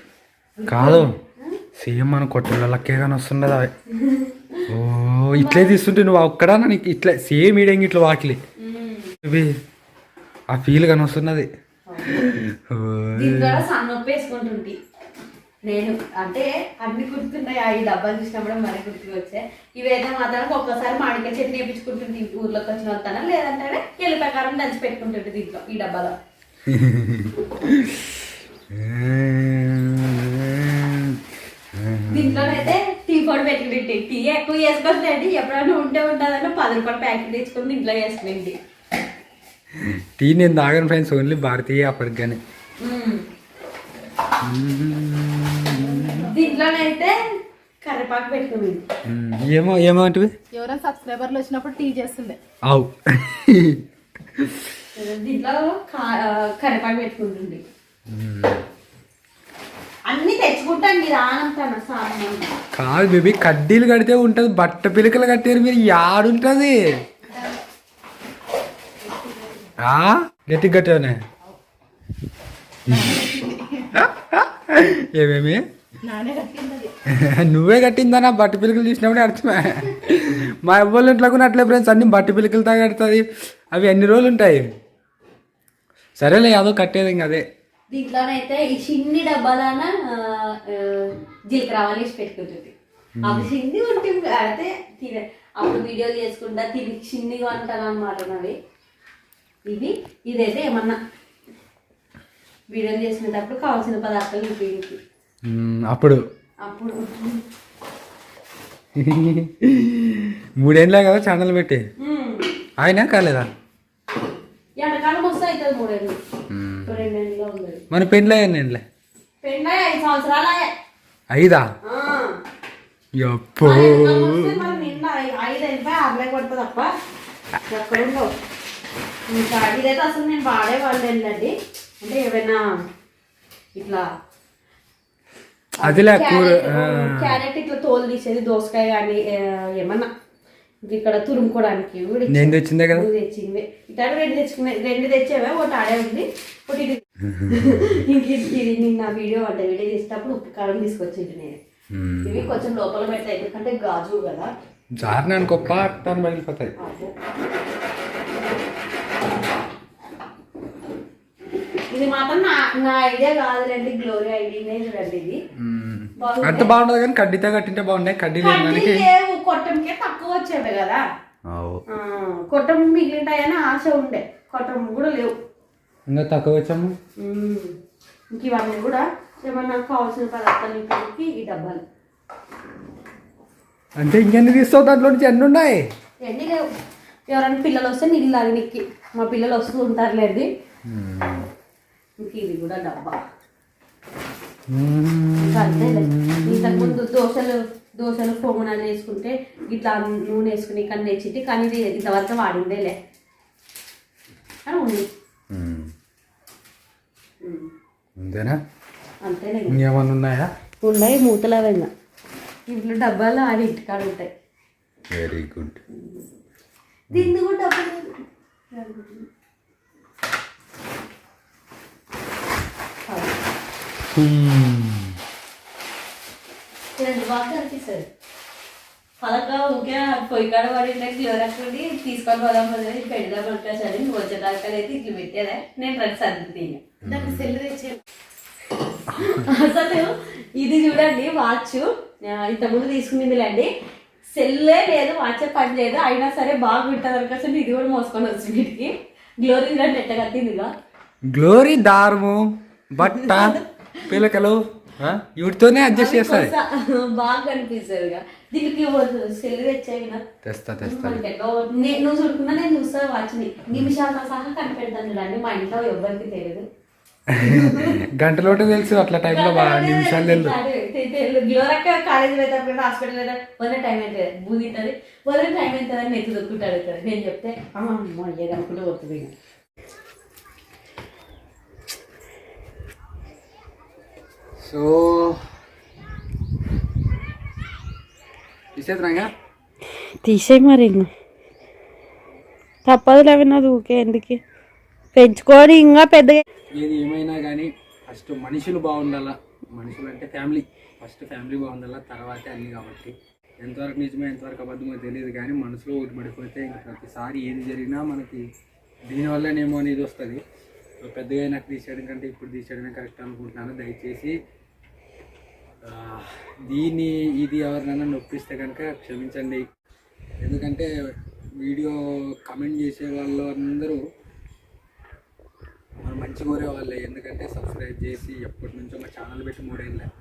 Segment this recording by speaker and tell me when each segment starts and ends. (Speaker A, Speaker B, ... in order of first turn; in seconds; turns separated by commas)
Speaker A: 0.6-1.6, Speaker B: 0.7-1.1, Speaker B: 1.8-3.7, Speaker A: 3.9-4.6, Speaker B: 4.7-8.4, Speaker A: 5.3-5.8, Speaker A: 8.6-9.2, Speaker B: 9.2-9.5, Speaker B: 10.5-11.5, Speaker A: 11.9-12.3, Speaker B: 12.1-13.6, Speaker A: 13.2-14.8, Speaker A: 15.6-26.1, Speaker B: 26.7-32.7, Speaker A: 32.1-38.6, Speaker B: 39.7-42.4, Speaker A: 42.8-43.3, Speaker B: 44.4-46.3, Speaker A: 46.1-47.1, Speaker A: 47.8-48.8, Speaker B: 49.0-50.3, Speaker C: 50.5-52.4, Speaker B: 52.7-54.7, Speaker A: 54.9-57.6, Speaker B: 58.1-58.6, Speaker A: 60.1-62.5, Speaker B: 62.7-66.8, Speaker B: 69.8-71.2, Speaker B: 72.9-73.2, Speaker C: 72.9-74.0, Speaker B: 73.9-75.6, Speaker C: 76.0-76.9, Speaker B: 77.1-84.6, Speaker B: 86.2-87.4, Speaker A: 87.9-92.7, Speaker B: 93.2-93.5, Speaker A: 93.2-98.5, Speaker A: 99.7-101.0, Speaker A: 102.7-105.0, Speaker B: 105.5-106.2, Speaker A: 106.6-107.4, Speaker B: 109.0-111.8, Speaker A: 112.0-112.5, Speaker B: 112.8-113.5, Speaker A: 114.8-116.2, Speaker B: 116.5-117.0, Speaker A: 116.9-117.8, Speaker B: 117.9-118.8, Speaker A: 119.4-120.7, Speaker B: 121.3-121.6, Speaker A: 121.8-122.3, Speaker B: 123.2-124.9, Speaker A: 123.6-126.9, Speaker A: 127.7-128.3, Speaker A: 129.3-132.6, Speaker A: 133.8-134.0, Speaker A: 135.8-140.1, Speaker B: 135.8-137.4, Speaker A: 140.8-151.6, Speaker B: 142.3-143.1, Speaker B: 147.3-148.0, Speaker B: 151.9-152.6, Speaker A: 152.2-154.5, Speaker B: 155.0-156.7, Speaker A: 156.8-157.1, Speaker A: 161.9-165.4, Speaker B: 165.6-169.0, Speaker A: 166.2-166.7, Speaker A: 168.4-171.0, Speaker B: 171.5-171.8, Speaker A: 171.9-175.3, Speaker B: 176.1-176.9, Speaker A: 177.2-177.7, Speaker A: 178.3-181.8, Speaker B: 184.0-185.8, Speaker A: 186.2-186.6, Speaker A: 187.3-190.5, Speaker B: 190.9-191.5, Speaker A: 192.2-193.2, Speaker B: 194.7-197.0, Speaker A: 195.4-202.9, Speaker A: 204.7-205.1, Speaker B: 205.5-205.9, Speaker A: 207.4-207.7, Speaker B: 208.2-208.6, Speaker A: 209.2-209.8, Speaker B: 209.7-210.5, Speaker A: 210.8-211.9, Speaker A: 212.7-214.3, Speaker B: 215.1-215.8, Speaker A: 215.9-216.2, Speaker A: 217.1-218.1, Speaker A: 218.7-219.2, Speaker A: 223.1-223.4, Speaker B: 224.1-225.2, Speaker A: 226.9-228.1, Speaker A: 229.2-236.8, Speaker B: 237.0-237.6, Speaker C: 237.0-238.0, Speaker A: 239.1-243.7, Speaker A: 244.3-250.7, Speaker B: 251.3-256.5, Speaker A: 253.0-253.6, Speaker A: 255.9-260.2, Speaker B: 260.4-261.2, Speaker A: 260.8-266.6, Speaker B: 267.3-270.6, Speaker A: 267.4-268.0, Speaker A: 269.2-279.3, Speaker B: 284.6-285.4, Speaker B: 288.7-289.3, Speaker A: 290.2-291.1, Speaker A: 292.9-294.4, Speaker A: 295.1-296.4, Speaker B: 296.7-308.4, Speaker B: 309.1-310.4, Speaker B: 311.0-314.3, Speaker B: 315.8-319.6, Speaker B: 320.4-320.9, Speaker B: 321.6-324.0, Speaker B: 326.0-330.1